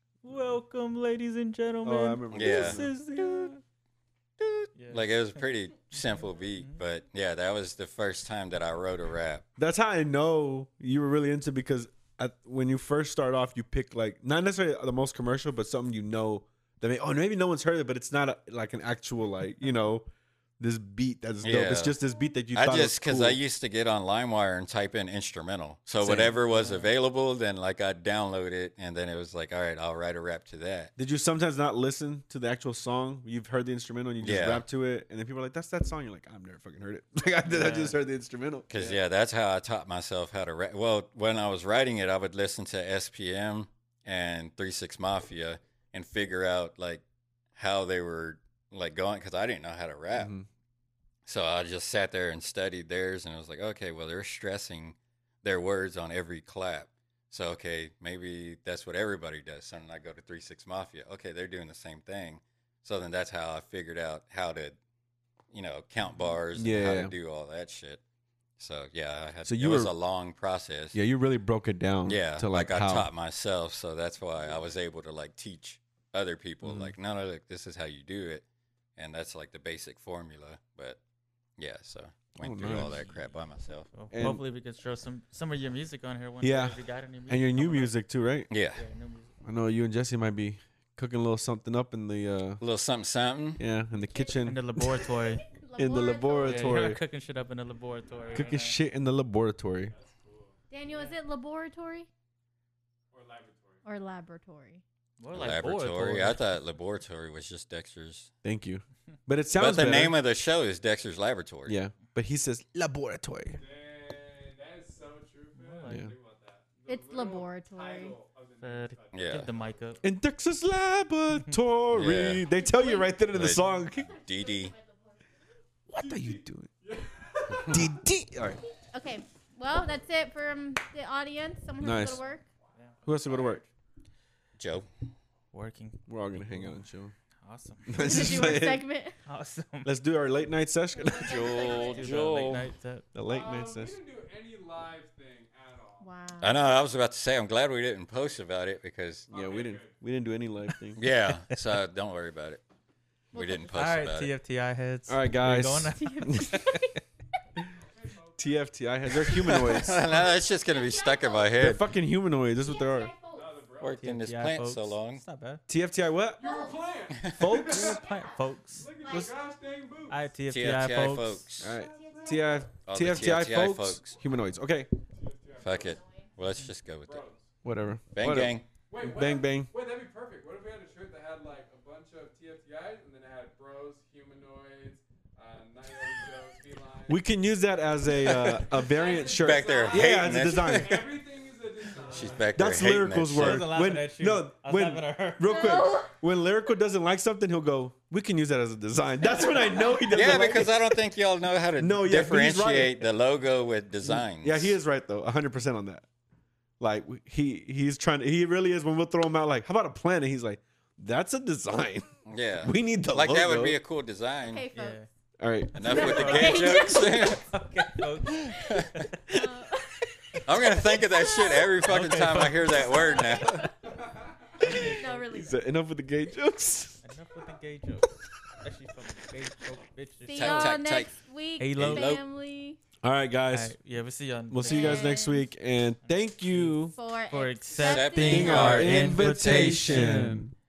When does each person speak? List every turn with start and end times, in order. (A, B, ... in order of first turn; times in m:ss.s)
0:00.2-0:03.6 A
0:01.8-0:03.0 B
0:02.3-0:02.8 C
0:04.7-0:05.2 A
0:04.9-0:09.4 C
0:09.6-0:20.1 B
0:20.6-0:23.4 B
0:21.4-0:22.0 C
0:22.6-0:30.9 C
0:26.0-0:26.3 B
0:26.0-0:26.9 A
0:31.0-0:39.0 B
0:34.2-0:34.6 C
0:37.5-0:38.0 A
0:38.7-0:47.0 C
0:47.6-0:50.3 C
0:50.1-0:50.5 B
0:51.3-1:04.8 C
1:05.5-1:08.0 C
1:06.5-1:07.1 B
1:08.6-1:11.0 C
1:09.4-1:09.9 B
1:10.9-1:13.1 B
1:12.1-1:18.4 C
1:16.6-1:16.9 B
1:19.0-1:21.0 C
1:21.6-1:23.9 C
1:22.4-1:23.0 B
1:22.6-1:23.2 A
1:23.9-1:28.0 A
1:24.1-1:24.4 B
1:26.4-1:28.5 B
1:28.5-1:28.8 C
1:28.7-1:29.3 A
1:29.4-1:32.6 B
1:32.6-1:33.6 C
1:33.6-1:35.0 B
1:34.4-1:35.4 A
1:35.3-1:37.0 D
1:35.8-1:37.0 B
1:36.4-1:38.8 A
1:38.3-1:40.0 B
1:39.9-1:41.1 E
1:40.7-1:42.1 D
1:43.1-1:43.8 E
1:43.8-1:44.8 D
1:45.2-1:46.4 A
1:45.3-1:48.3 C
1:48.4-1:50.2 B
1:49.6-1:51.8 C
1:51.7-1:53.6 B
1:53.5-1:59.2 E
1:55.5-1:56.1 A
1:55.9-1:56.1 B
1:56.9-1:58.2 D
1:58.6-2:00.0 A
1:59.1-1:59.5 C
2:00.0-2:04.1 B
2:01.9-2:02.4 C
2:02.4-2:05.4 D
2:03.3-2:04.8 C
2:05.9-2:06.7 B
2:06.0-2:07.8 E
2:07.7-2:08.6 B
2:08.9-2:12.5 D
2:11.8-2:12.2 B
2:13.0-2:13.6 B
2:14.6-2:14.9 C
2:15.5-2:16.8 A
2:16.1-2:17.1 B
2:17.4-2:18.1 A
2:17.9-2:18.9 B
2:18.0-2:19.2 D
2:19.2-2:19.9 A
2:19.8-2:22.6 B
2:21.0-2:22.2 D
2:21.2-2:22.7 C
2:21.6-2:23.1 A
2:23.1-2:24.0 B
2:23.3-2:26.0 E
2:26.0-2:26.6 D
2:26.4-2:29.3 C
2:29.3-2:31.0 B
2:29.3-2:29.9 E
2:31.0-2:32.6 C
2:33.3-2:34.3 C
2:33.3-2:33.7 D
2:33.7-2:36.9 A
2:35.1-2:36.7 B
2:36.0-2:36.7 D
2:38.0-2:38.5 E
2:38.4-2:40.1 B
2:39.5-2:41.8 C
2:40.0-2:41.6 D
2:41.6-2:43.1 B
2:42.6-2:43.8 D
2:43.4-2:44.0 E
2:43.8-2:45.2 C
2:43.8-2:45.6 A
2:45.7-2:46.6 B
2:46.4-2:47.8 E
2:46.4-2:47.0 D
2:47.1-2:47.4 C
2:47.3-2:48.0 B
2:47.5-2:48.9 A
2:47.8-2:48.4 D
2:48.7-2:50.2 E
2:49.0-2:49.4 D
2:50.1-2:51.5 A
2:50.5-2:51.8 C
2:51.6-2:54.9 B
2:51.8-2:52.5 D
2:51.8-2:52.4 E
2:52.8-2:54.2 C
2:55.2-2:56.0 E
2:55.6-2:57.3 C
2:55.8-2:56.3 D
2:57.0-2:57.4 E
2:57.6-2:59.7 B
2:58.2-2:58.7 C
2:58.9-3:07.2 E
3:07.1-3:11.1 B
3:08.2-3:11.1 C
3:08.9-3:12.5 E
3:12.0-3:13.7 C
3:12.6-3:21.0 B
3:13.3-3:15.7 A
3:15.5-3:16.2 D
3:19.2-3:20.2 D
3:20.1-3:24.8 C
3:21.8-3:23.0 B
3:24.0-3:26.1 B
3:26.8-3:33.8 B
3:32.3-3:34.6 C
3:34.4-3:35.1 D
3:34.7-3:35.1 A
3:35.4-3:36.4 B
3:35.8-3:37.5 C
3:35.8-3:39.0 A
3:35.8-3:37.5 D
3:38.3-3:39.1 C
3:38.4-3:41.8 D
3:40.4-3:43.7 C
3:41.8-3:43.2 A
3:42.7-3:44.0 D
3:44.6-3:45.3 A
3:44.6-3:45.6 D
3:44.7-3:47.0 B
3:47.0-3:50.8 A
3:50.2-3:52.8 D
3:50.3-3:51.2 C
3:51.6-3:52.2 A
3:51.8-3:52.2 C
3:53.0-3:53.8 B
3:53.5-3:55.1 A
3:54.5-3:57.0 B
3:54.6-3:55.5 D
3:56.1-4:00.3 A
3:56.8-3:59.1 D
3:57.8-3:59.8 C
3:58.2-4:00.4 B
3:59.3-4:00.5 E